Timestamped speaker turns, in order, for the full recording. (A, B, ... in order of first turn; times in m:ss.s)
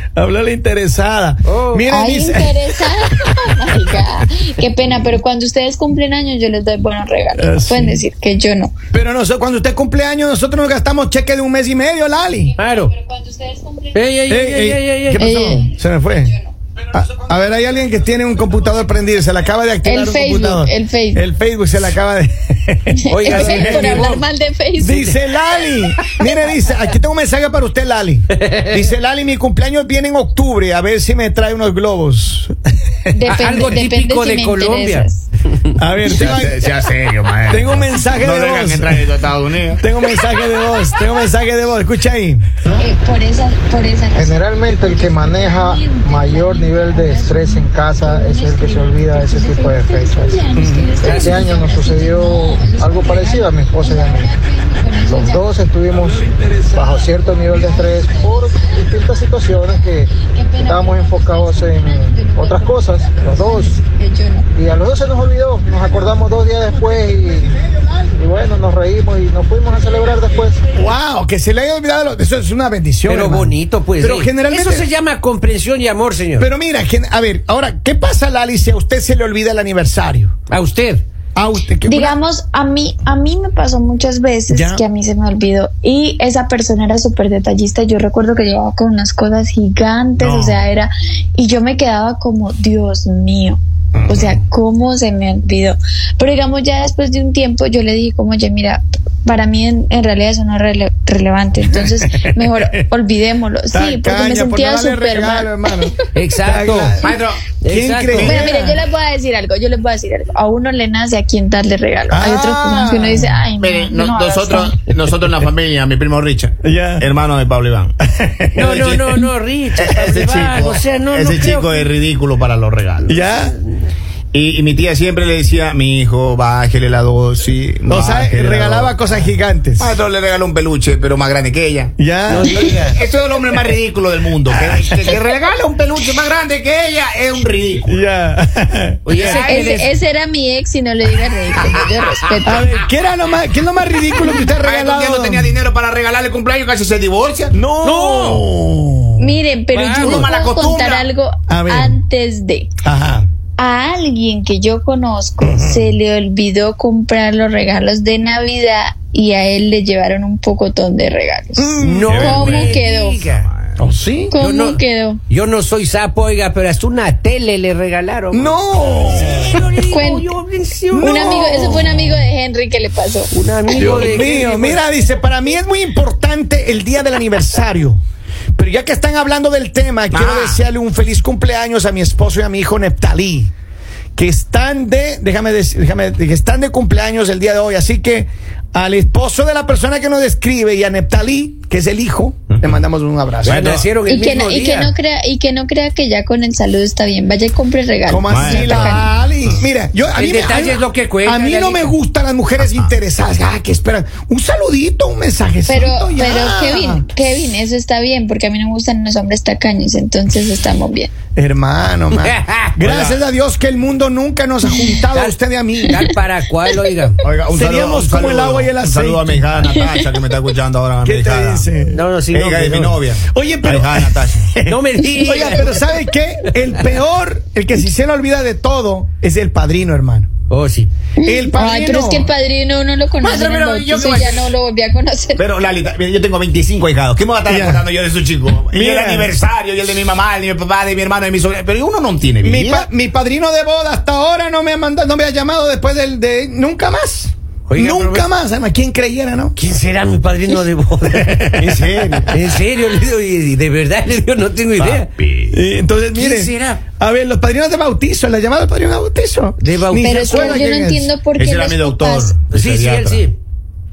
0:00.2-0:04.2 A
0:01.5-0:01.9 B
0:01.9-0:08.7 C
0:07.4-0:08.0 A
0:08.9-0:12.6 A
0:12.6-0:12.9 B
0:12.7-0:14.0 C
0:13.9-0:15.4 B
0:14.3-0:16.4 A
0:15.2-0:15.7 C
0:16.9-0:24.2 A
0:19.8-0:21.2 C
0:22.9-0:25.2 C
0:23.1-0:24.2 B
0:24.8-0:32.6 A
0:33.1-0:35.3 C
0:33.3-0:35.1 B
0:35.8-0:36.6 A
0:36.1-0:39.8 D
0:37.5-0:39.0 A
0:39.8-0:42.8 A
0:42.8-0:55.5 C
0:44.2-0:50.5 E
0:50.6-0:50.9 A
0:51.0-0:51.4 B
0:51.0-0:54.3 E
0:55.0-1:03.8 E
0:56.0-0:57.0 A
0:57.2-1:04.5 C
1:04.6-1:07.5 E
1:05.9-1:08.2 A
1:08.2-1:10.7 E
1:10.7-1:14.9 A
1:13.1-1:16.5 B
1:16.4-1:20.3 A
1:20.5-1:21.0 B
1:21.4-1:22.2 A
1:21.9-1:45.9 C
1:24.5-1:24.8 A
1:30.2-1:30.6 D
1:34.0-1:34.4 A
1:41.7-1:42.7 A
1:43.7-1:47.2 A
1:46.1-1:47.0 B
1:47.0-1:47.4 D
1:47.6-1:48.4 B
1:47.7-1:48.8 A
1:48.1-1:48.6 D
1:48.2-1:54.8 C
1:52.1-1:53.4 A
1:53.6-1:58.0 D
1:56.6-1:57.1 A
1:58.1-1:58.6 A
1:58.6-2:01.9 B
1:58.6-1:59.2 D
1:59.8-2:03.3 D
2:03.1-2:03.6 A
2:04.3-2:12.0 D
2:07.9-2:09.9 A
2:12.0-2:13.0 A
2:12.3-2:13.0 B
2:12.5-2:18.0 D
2:14.6-2:15.2 A
2:17.8-2:19.5 A
2:19.1-2:19.9 B
2:19.2-2:19.8 D
2:19.4-2:22.7 C
2:21.6-2:22.7 D
2:22.4-2:25.6 A
2:24.2-2:27.6 D
2:27.5-2:29.4 A
2:27.8-2:28.4 B
2:29.2-2:32.7 C
2:29.7-2:30.3 B
2:30.0-2:31.1 D
2:31.5-2:32.0 A
2:32.8-2:33.3 A
2:33.6-2:43.2 C
2:35.4-2:35.9 A
2:41.6-2:42.5 A
2:41.8-2:43.5 B
2:42.1-2:42.8 D
2:43.4-2:43.9 D
2:43.8-2:44.4 A
2:44.3-2:45.2 C
2:44.4-2:51.6 B
2:48.3-2:49.7 A
2:49.8-2:50.3 C
2:50.9-2:52.3 A
2:51.0-2:54.1 C
2:53.3-2:54.8 B
2:53.8-2:58.0 A
2:58.6-3:03.5 A
3:00.1-3:00.6 D
3:04.2-3:13.6 A
3:12.5-3:12.8 D
3:13.4-3:13.9 D
3:13.4-3:14.9 B
3:14.1-3:19.1 C
3:18.1-3:27.1 A
3:18.3-3:19.6 D
3:20.2-3:21.9 B
3:22.6-3:22.9 D
3:25.7-3:31.1 C
3:31.4-3:36.1 A
3:32.2-3:32.9 B
3:32.8-3:33.2 D
3:35.1-3:37.2 B
3:37.2-3:41.7 D
3:37.5-3:39.5 A
3:39.8-3:40.0 C
3:41.0-3:42.0 A
3:41.9-3:43.0 B
3:42.3-3:44.6 D
3:43.3-3:50.3 A
3:44.6-3:46.0 B
3:50.5-3:50.9 B
3:51.2-3:55.4 C
3:51.2-3:52.3 A
3:53.2-3:54.5 D
3:55.4-4:02.9 D
3:57.5-3:57.8 A
3:58.7-3:59.3 A
4:02.4-4:09.6 A
4:07.7-4:08.3 B
4:09.6-4:15.1 B
4:11.6-4:12.4 D
4:14.8-4:15.6 D
4:15.5-4:21.1 A
4:16.2-4:16.8 B
4:19.6-4:20.7 B
4:20.0-4:22.4 C
4:21.4-4:23.2 D
4:22.5-4:23.4 B